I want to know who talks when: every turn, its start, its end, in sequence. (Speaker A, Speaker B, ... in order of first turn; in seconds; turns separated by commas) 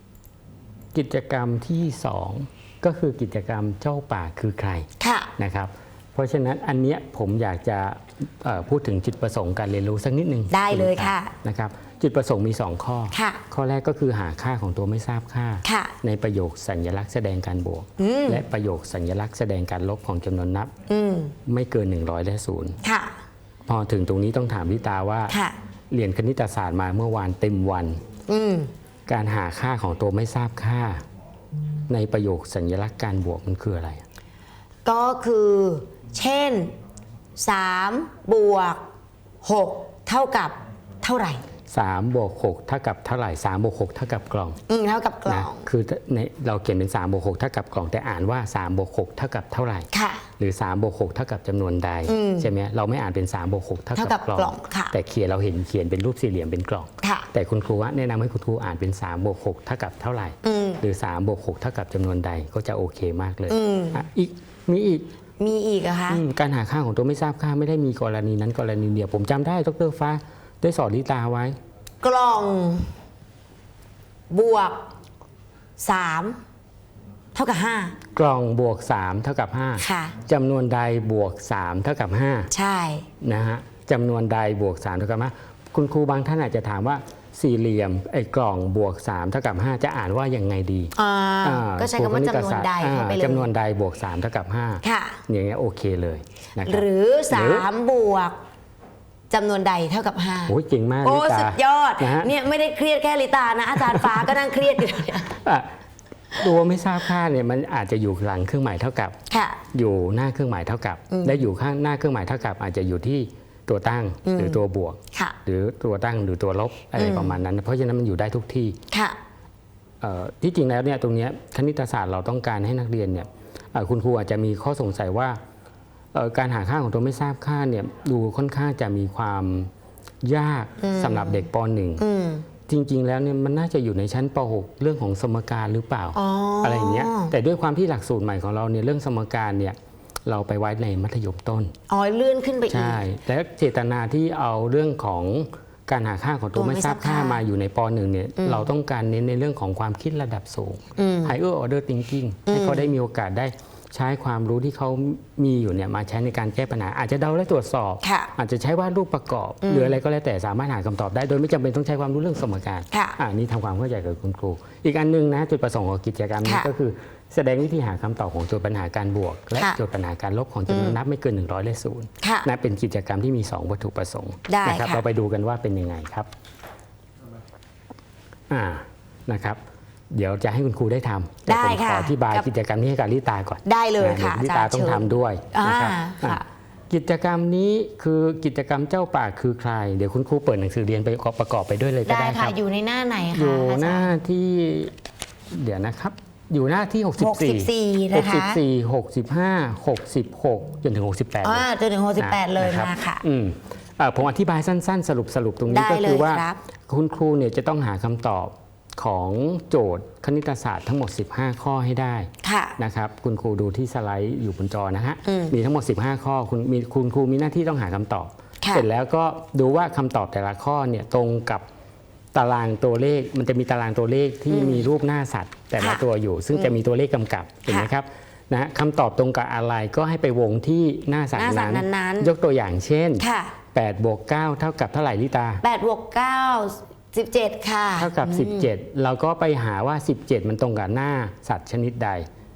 Speaker A: 0.9-20.7, Speaker B: 5.0-5.3, Speaker B: 10.5-11.3, Speaker B: 13.1-13.4, Speaker B: 15.6-15.9, Speaker B: 18.0-18.4, Speaker B: 20.9-21.3, Speaker A: 21.5-22.8, Speaker B: 22.8-23.1, Speaker A: 23.7-25.3, Speaker B: 25.3-25.6, Speaker A: 25.9-28.0, Speaker B: 28.3-28.7, Speaker A: 29.1-31.0, Speaker A: 31.9-34.0, Speaker B: 34.9-36.7, Speaker B: 37.4-38.8, Speaker B: 39.4-41.4, Speaker A: 41.7-44.6, Speaker B: 44.7-45.7, Speaker A: 45.3-65.1, Speaker B: 49.9-50.2, Speaker B: 52.1-52.5, Speaker B: 54.0-55.0, Speaker B: 57.0-57.3, Speaker B: 60.4-60.8, Speaker B: 63.5-64.0, Speaker B: 65.4-66.2, Speaker A: 66.1-71.6, Speaker B: 72.0-72.9, Speaker B: 74.3-74.8, Speaker B: 75.8-76.4, Speaker B: 77.3-78.0, Speaker A: 78.1-82.5, Speaker B: 79.8-80.2, Speaker B: 82.5-83.1, Speaker A: 83.2-90.9, Speaker B: 91.0-93.5, Speaker A: 91.4-97.7, Speaker B: 94.8-95.2, Speaker B: 96.6-98.4, Speaker B: 99.3-105.3, Speaker A: 100.5-102.3, Speaker A: 105.3-105.7, Speaker A: 106.3-109.2, Speaker B: 109.3-109.6, Speaker A: 109.7-118.8, Speaker B: 111.1-111.4, Speaker B: 114.2-114.6, Speaker B: 117.0-117.4, Speaker B: 118.9-119.2, Speaker A: 120.0-125.4, Speaker A: 126.1-129.7, Speaker A: 130.2-132.0, Speaker B: 130.8-131.5, Speaker B: 132.0-132.5, Speaker A: 132.7-141.7, Speaker B: 136.2-137.3, Speaker B: 141.9-143.0, Speaker A: 142.7-176.3, Speaker B: 146.6-147.4, Speaker B: 148.4-148.7, Speaker B: 151.0-151.3, Speaker B: 152.5-152.9, Speaker B: 158.0-158.3, Speaker B: 159.6-160.0, Speaker B: 162.9-163.2, Speaker B: 166.4-166.7, Speaker B: 170.7-171.0, Speaker B: 172.2-172.5, Speaker B: 174.5-175.0, Speaker A: 178.5-179.6, Speaker A: 180.1-192.6, Speaker B: 181.5-182.5, Speaker B: 183.6-186.4, Speaker B: 192.1-194.1, Speaker A: 193.3-194.9, Speaker A: 195.5-201.7, Speaker B: 197.2-198.6, Speaker B: 201.4-203.2, Speaker A: 202.2-221.6, Speaker B: 205.7-206.6, Speaker B: 212.4-212.8, Speaker B: 215.2-215.6, Speaker A: 222.3-235.6, Speaker B: 224.5-224.8, Speaker B: 225.8-226.8, Speaker B: 231.4-232.3, Speaker B: 233.2-233.5, Speaker B: 235.6-238.7, Speaker A: 238.0-242.3